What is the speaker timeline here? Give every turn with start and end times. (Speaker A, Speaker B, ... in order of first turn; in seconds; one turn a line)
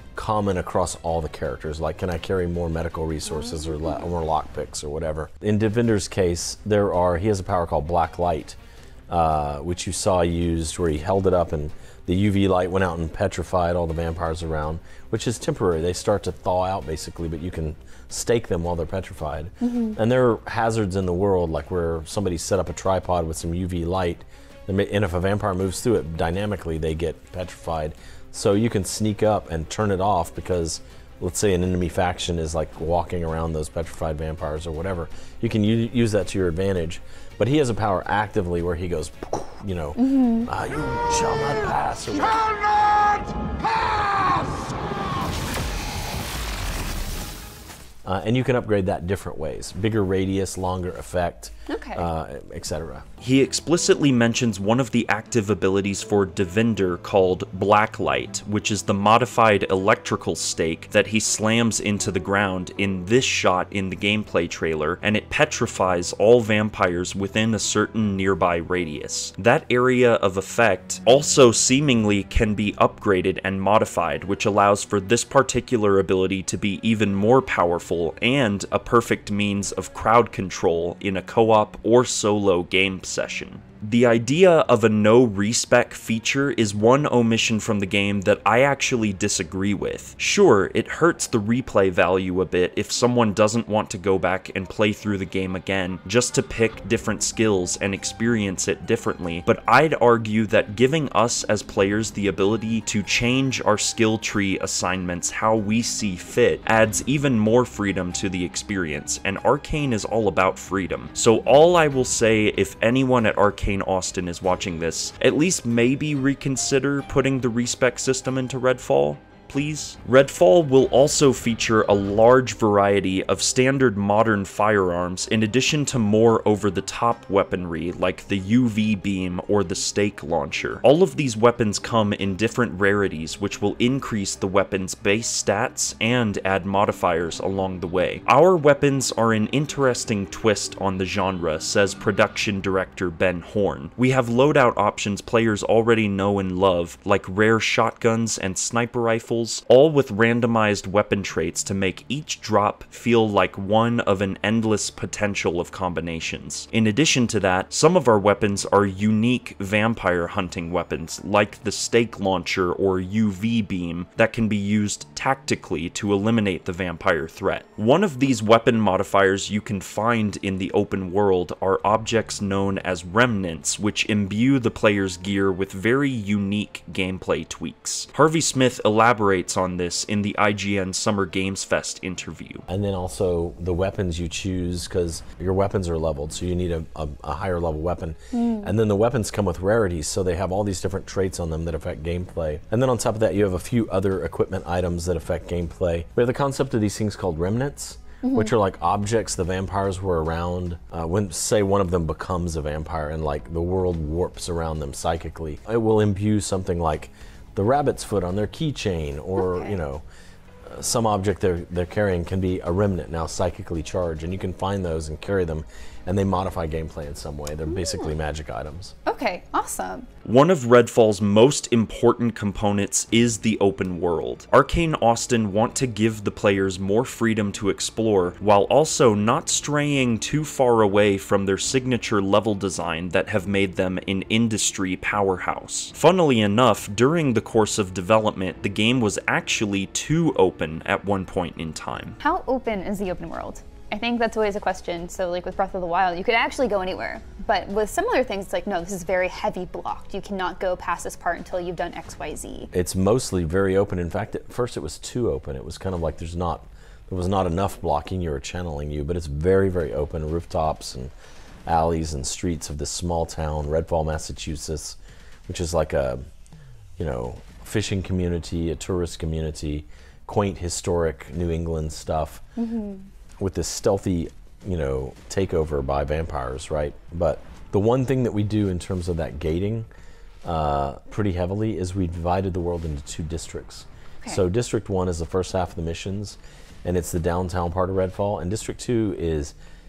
Speaker A: 0.1-8.6
Speaker B: 3.3-3.9
Speaker A: 9.1-44.7
Speaker B: 19.6-20.0
Speaker B: 40.0-40.5
Speaker B: 42.1-42.4
Speaker A: 48.0-53.0
Speaker B: 51.7-52.1
Speaker C: 53.2-182.7
Speaker A: 182.7-210.0
Speaker B: 188.3-188.7
Speaker B: 198.2-198.5
Speaker B: 209.4-209.7
Speaker A: 210.7-218.9
Speaker B: 217.7-218.1
Speaker B: 219.1-220.1
Speaker C: 220.2-242.2
Speaker B: 242.2-252.7
Speaker A: 252.7-261.1
Speaker A: 261.7-266.2
Speaker A: 267.0-272.4
Speaker B: 272.6-273.1
Speaker A: 273.4-279.9
Speaker A: 280.4-289.6